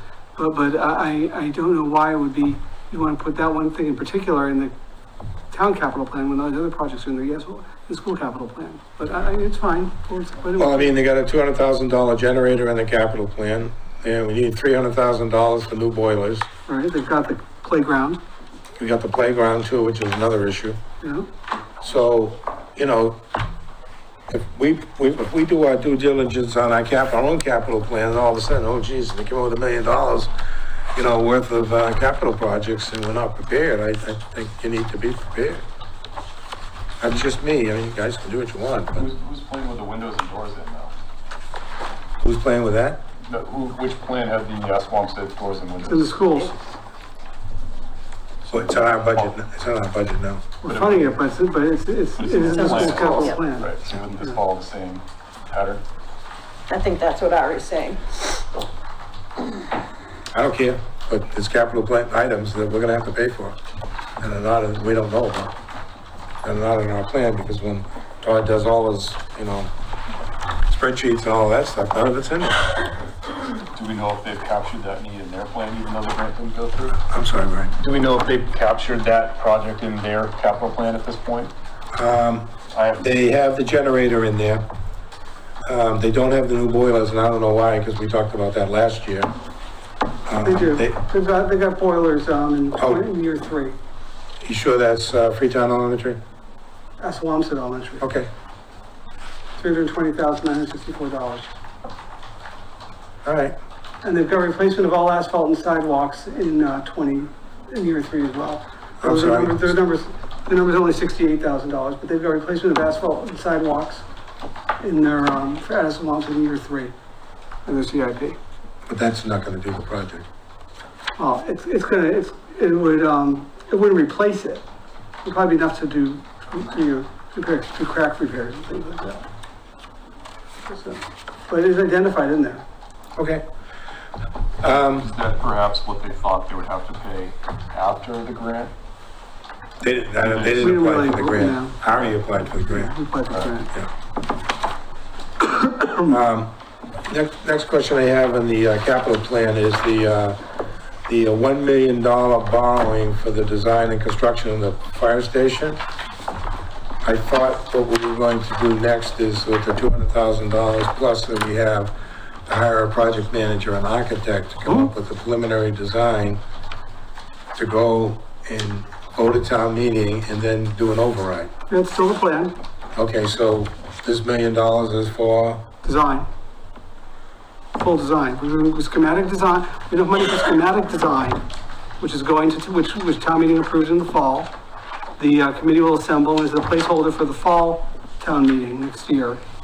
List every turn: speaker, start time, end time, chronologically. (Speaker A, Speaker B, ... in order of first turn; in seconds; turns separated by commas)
Speaker A: 0.4-4.7, Speaker A: 5.5-10.9, Speaker B: 10.6-16.5, Speaker A: 16.7-18.2, Speaker B: 18.8-20.8, Speaker A: 21.0-21.3, Speaker B: 21.8-23.2, Speaker B: 24.3-30.3, Speaker B: 30.9-35.6, Speaker B: 37.0-39.1, Speaker C: 39.0-40.9, Speaker B: 42.2-43.0, Speaker C: 43.2-46.2, Speaker A: 45.9-46.5, Speaker C: 48.5-49.2, Speaker B: 48.5-50.5, Speaker A: 50.6-53.7, Speaker C: 50.6-51.1, Speaker C: 52.2-55.8, Speaker D: 52.5-53.4, Speaker D: 56.7-58.4, Speaker B: 60.3-63.6, Speaker B: 64.2-65.5, Speaker B: 66.4-69.7, Speaker B: 70.7-72.9, Speaker C: 73.7-77.0, Speaker B: 77.1-77.7, Speaker C: 77.8-81.5, Speaker B: 81.9-84.7, Speaker C: 82.7-83.1, Speaker B: 85.7-89.3, Speaker B: 90.3-91.0, Speaker A: 90.4-93.8, Speaker B: 92.8-93.0, Speaker B: 94.4-96.2, Speaker A: 97.0-98.1, Speaker B: 98.0-98.3, Speaker A: 99.6-101.5, Speaker B: 103.2-103.5, Speaker A: 104.0-114.0, Speaker B: 109.0-109.8, Speaker A: 114.8-116.9, Speaker A: 117.7-118.4, Speaker B: 118.9-120.3, Speaker A: 121.2-124.6, Speaker A: 125.2-129.3, Speaker A: 130.7-132.6, Speaker B: 133.2-133.4, Speaker B: 134.6-135.1, Speaker C: 135.0-138.7, Speaker B: 139.8-142.9, Speaker C: 140.2-140.8, Speaker A: 140.6-143.7, Speaker A: 145.6-146.1, Speaker B: 146.0-150.4, Speaker B: 151.1-155.8, Speaker B: 157.0-166.4, Speaker B: 167.6-171.5, Speaker A: 171.7-172.6, Speaker B: 173.0-175.7, Speaker A: 175.8-176.3, Speaker A: 177.8-181.4, Speaker A: 182.0-184.5, Speaker A: 185.2-189.4